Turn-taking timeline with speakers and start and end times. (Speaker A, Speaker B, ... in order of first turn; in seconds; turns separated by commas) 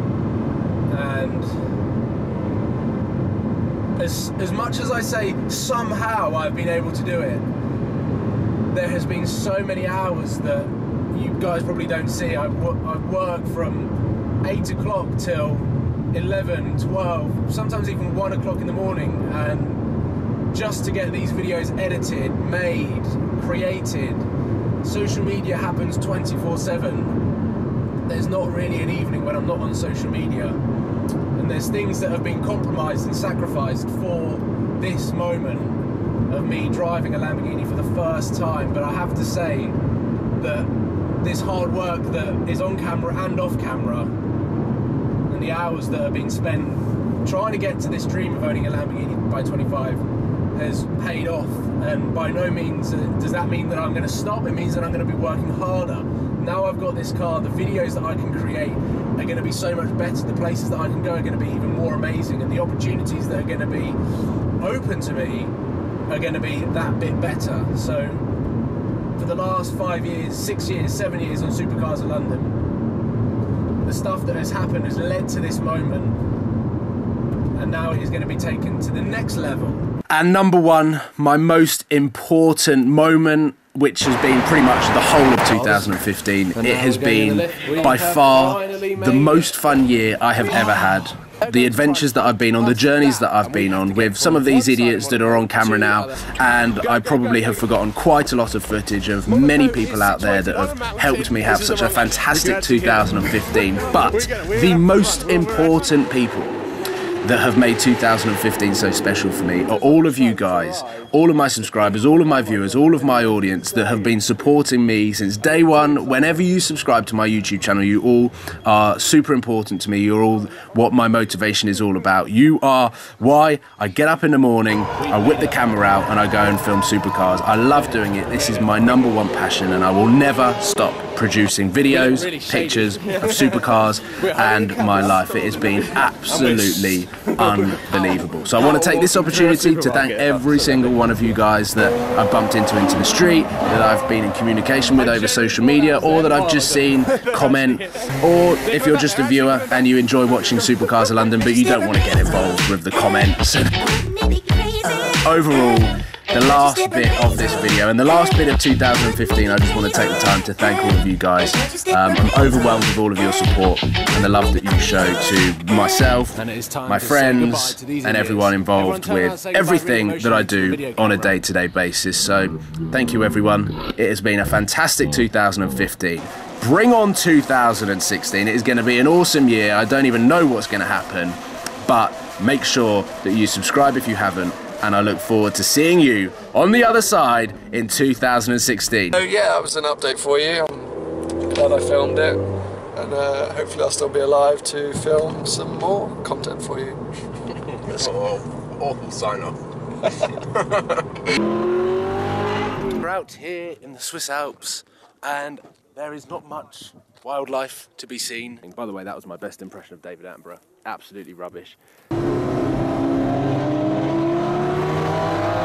Speaker A: 0.9-1.6, Speaker A: 4.0-7.5, Speaker A: 8.7-19.9, Speaker A: 20.5-24.3, Speaker A: 24.8-27.2, Speaker A: 28.1-30.6, Speaker A: 31.4-39.8, Speaker A: 40.4-44.1, Speaker A: 45.3-50.0, Speaker A: 50.5-64.0, Speaker A: 64.6-65.5, Speaker A: 66.1-68.3, Speaker A: 69.2-72.6, Speaker A: 73.8-76.2, Speaker A: 77.6-79.9, Speaker B: 80.1-106.5, Speaker A: 85.4-86.0, Speaker A: 86.5-90.8, Speaker A: 91.4-97.7, Speaker A: 99.3-106.1, Speaker B: 107.2-189.2, Speaker A: 109.5-114.4, Speaker A: 115.4-116.5, Speaker A: 125.0-125.9, Speaker A: 128.0-129.1, Speaker A: 131.9-141.2, Speaker A: 144.9-150.1, Speaker A: 166.4-171.4, Speaker C: 189.2-192.4, Speaker C: 192.9-197.0, Speaker B: 197.9-199.5, Speaker A: 197.9-198.4, Speaker B: 203.0-211.8